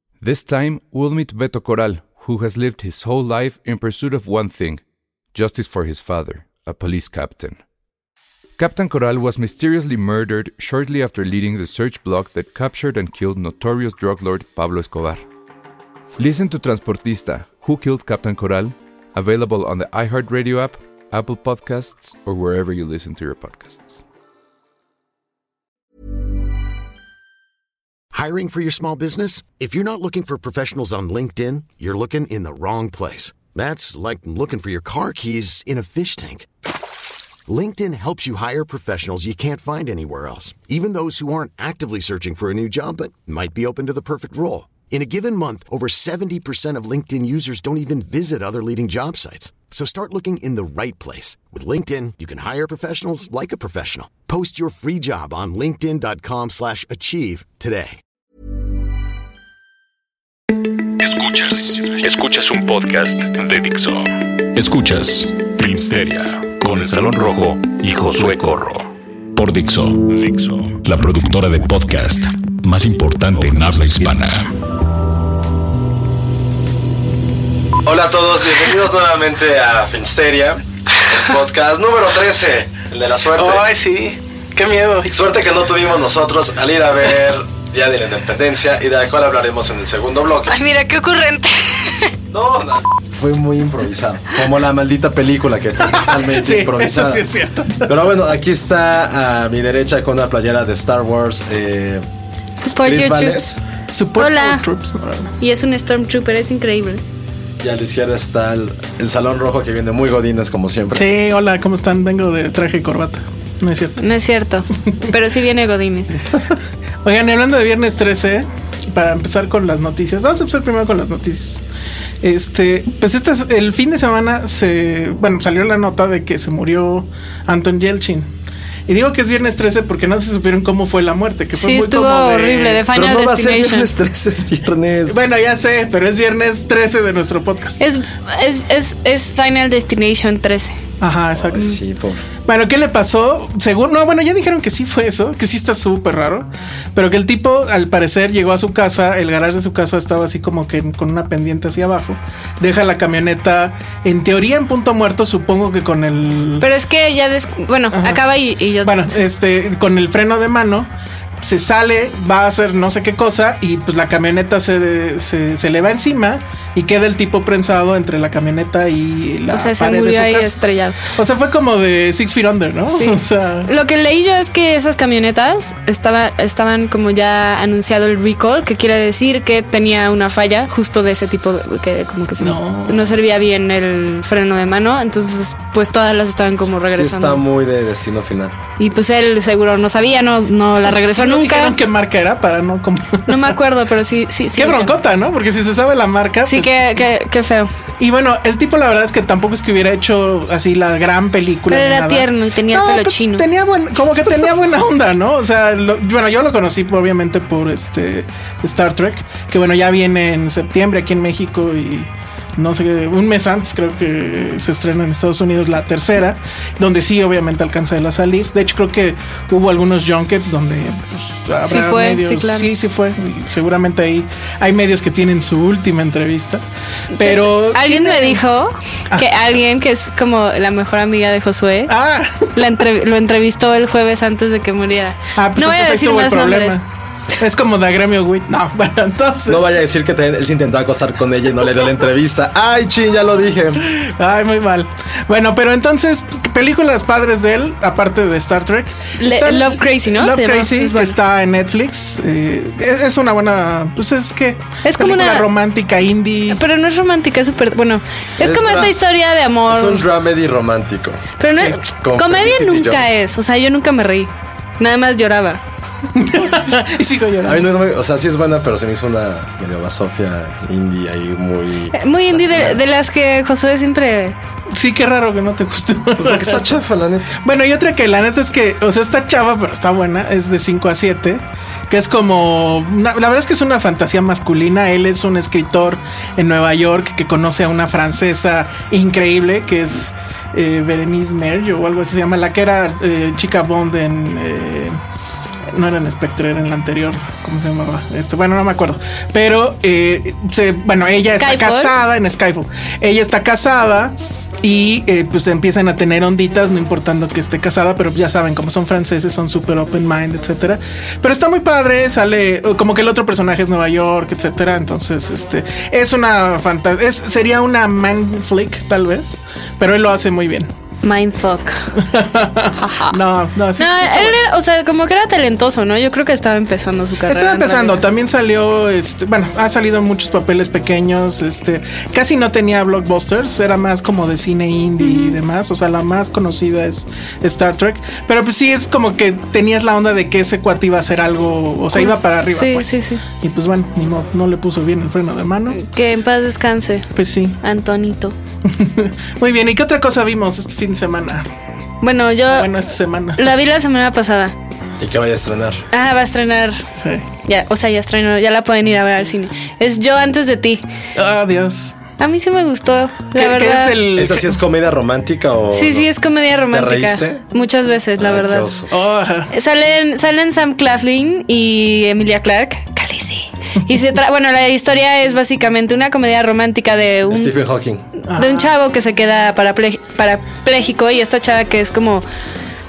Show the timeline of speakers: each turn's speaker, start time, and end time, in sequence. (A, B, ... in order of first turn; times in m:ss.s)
0:00.2-0:04.8 A
0:05.3-0:07.6 A
0:08.6-0:15.2 A
0:16.2-0:24.0 A
0:28.1-0:36.5 B
0:37.5-0:58.0 B
1:01.0-1:14.5 C
1:17.8-1:23.7 D
1:23.4-1:25.2 E
1:25.1-1:30.6 D
1:30.5-1:32.1 F
1:32.3-1:37.2 D
1:35.9-1:38.0 E
1:37.8-1:42.0 D
1:42.6-1:43.4 F
1:42.6-1:43.6 D
1:43.9-1:45.3 E
1:44.2-1:44.6 F
1:45.4-1:47.0 F
1:47.6-1:51.1 D
1:50.9-1:54.0 E
1:54.0-1:56.2 F
1:57.0-2:01.6 E
2:02.2-2:08.3 E
2:08.9-2:12.8 E
2:11.5-2:13.9 F
2:12.9-2:15.2 D
2:15.1-2:17.8 E
2:17.8-2:20.8 F
2:21.0-2:21.8 E
2:21.4-2:22.2 D
2:22.5-2:36.7 E
2:36.6-2:39.2 F
2:37.9-2:38.2 E
2:38.8-2:40.9 E
2:41.4-2:53.7 E
2:49.5-2:51.0 F
2:52.9-3:07.4 F
3:02.4-3:03.2 E
3:06.9-3:08.6 D
3:08.8-3:11.8 F
3:11.0-3:13.5 E
3:13.3-3:15.0 F
3:14.6-3:17.0 E
3:16.5-3:17.7 F
3:18.0-3:46.6 E
3:21.7-3:23.5 F
3:41.7-3:42.7 F
3:47.1-3:48.4 E
3:47.2-3:51.9 F
3:51.9-3:52.6 E
3:52.6-3:56.8 F
3:55.4-3:56.9 E
3:57.4-3:59.6 E
3:59.5-4:04.0 D
4:03.9-4:16.6 E
4:09.2-4:11.2 F
4:14.8-4:15.5 F
4:16.5-4:20.0 F
4:18.4-4:18.9 D
4:19.7-4:21.3 D
4:21.4-4:25.6 F
4:21.9-4:23.2 D
4:26.2-4:27.7 E
4:27.4-4:32.8 D
4:31.9-4:34.4 F
4:34.7-4:36.7 E
4:36.2-4:37.4 D
4:37.4-4:55.0 E
4:55.7-5:20.7 E
5:01.4-5:01.9 F
5:21.0-5:21.9 F
5:22.0-5:24.4 E
5:22.8-5:23.2 F
5:23.8-5:28.0 F
5:27.3-5:45.8 E
5:35.0-5:35.4 F
5:41.9-5:43.2 F
5:45.7-5:47.1 F
5:47.2-5:47.6 E
5:47.6-5:48.4 F
5:48.7-5:51.5 E
5:52.0-5:52.7 F
5:52.5-5:53.4 E
5:53.4-5:54.5 F
5:55.0-5:55.8 D
5:55.9-5:56.8 F
5:57.0-5:57.3 E
5:57.5-6:00.8 F
6:01.2-6:02.0 E
6:02.2-6:04.0 F
6:03.4-6:04.6 E
6:04.1-6:06.1 D
6:05.7-6:08.7 F
6:06.7-6:07.4 D
6:08.2-6:08.9 D
6:08.9-6:09.5 E
6:09.5-6:17.5 F
6:17.3-6:18.0 D
6:18.3-6:18.7 E
6:18.3-6:22.2 F